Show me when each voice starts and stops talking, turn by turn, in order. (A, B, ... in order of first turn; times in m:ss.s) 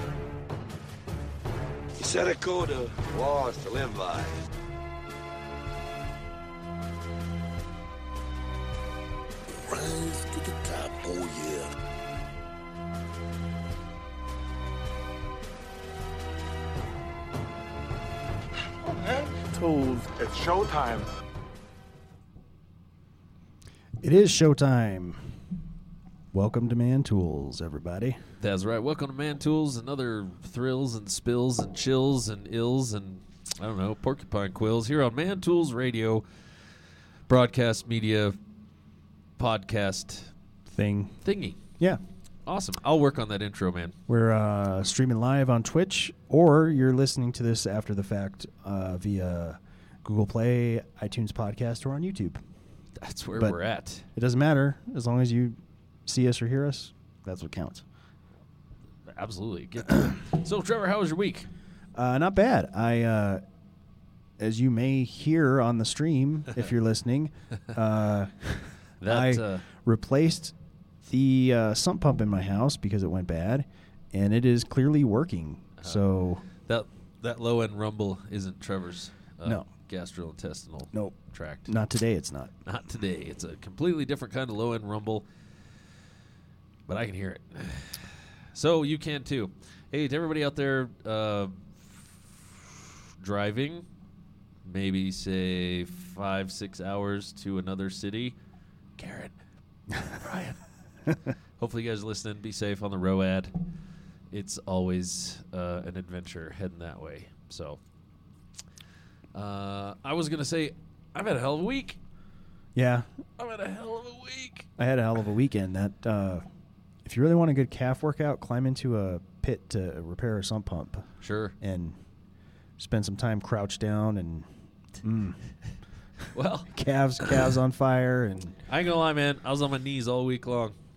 0:02.0-0:04.4 A
0:09.6-0:11.7 A
0:18.8-0:21.1 A
0:24.0-0:25.4 B
0:26.3-0:28.2 B
0:28.4-0:36.7 C
0:37.3-0:38.4 C
0:39.4-0:40.3 C
0:40.7-0:41.2 B
0:41.2-0:41.6 C
0:42.4-0:44.0 C
0:44.1-0:52.4 B
0:53.0-0:54.1 C
0:54.1-0:57.8 B
0:59.1-1:01.5 C
1:01.9-1:03.4 B
1:04.4-1:16.4 B
1:09.0-1:09.6 C
1:15.8-1:16.0 C
1:16.6-1:21.7 C
1:20.9-1:22.5 B
1:22.6-1:25.8 C
1:26.9-1:33.9 C
1:34.6-1:38.4 C
1:39.0-1:39.4 C
1:40.0-1:40.7 C
1:41.6-1:43.7 C
1:44.3-1:47.8 C
1:49.3-1:52.0 C
1:52.7-1:53.1 B
1:53.4-1:54.7 C
1:54.8-1:56.4 B
1:57.0-2:01.1 B
2:01.2-2:01.5 C
2:01.6-2:02.0 B
2:02.8-2:04.5 B
2:05.0-2:05.4 B
2:06.3-2:06.7 C
2:06.7-2:08.6 B
2:08.6-2:10.7 C